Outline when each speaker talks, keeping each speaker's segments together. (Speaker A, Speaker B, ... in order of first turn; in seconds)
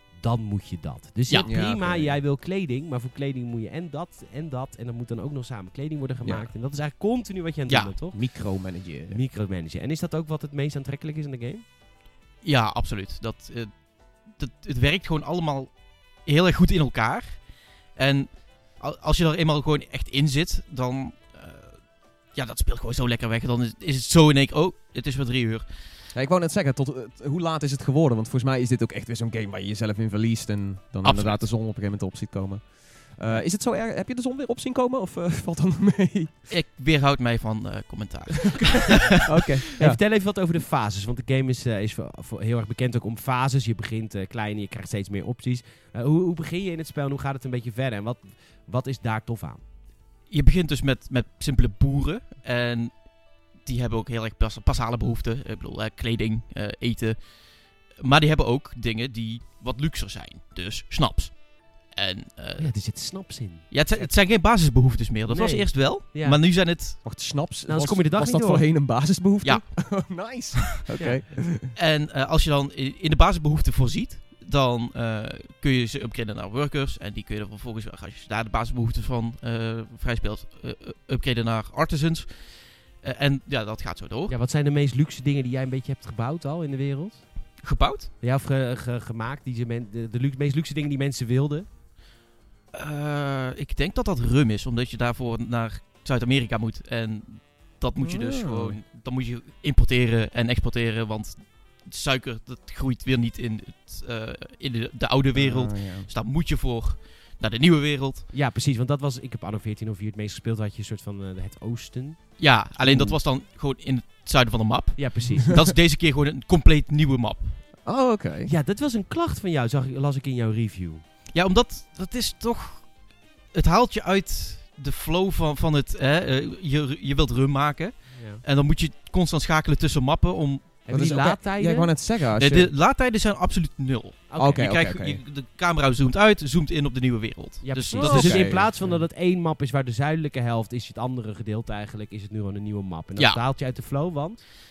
Speaker A: 0.2-8.3, 9.1-11.6, 39.8-49.6, 62.6-64.1, 65.3-66.4, 67.7-68.7, 71.0-71.2, 84.3-87.6, 88.2-91.7, 108.3-112.4, 115.0-115.5, 118.5-121.0, 128.1-128.4, 130.9-131.9, 134.3-134.7, 137.6-144.4
Speaker B: 1.4-2.2, 6.2-6.5, 8.1-9.2, 26.1-36.3, 39.2-40.0, 67.0-71.7, 98.0-98.8, 105.3-106.1, 112.8-113.2, 117.8-118.5, 130.9-132.7, 134.4-135.2, 137.9-138.7
Speaker C: 12.4-25.7, 31.0-31.4, 36.5-39.4, 50.3-62.7, 63.7-67.0, 69.4-70.8, 71.7-84.3, 87.6-88.1, 92.7-108.3, 112.4-117.6, 121.3-130.8, 132.3-139.0, 143.2-143.4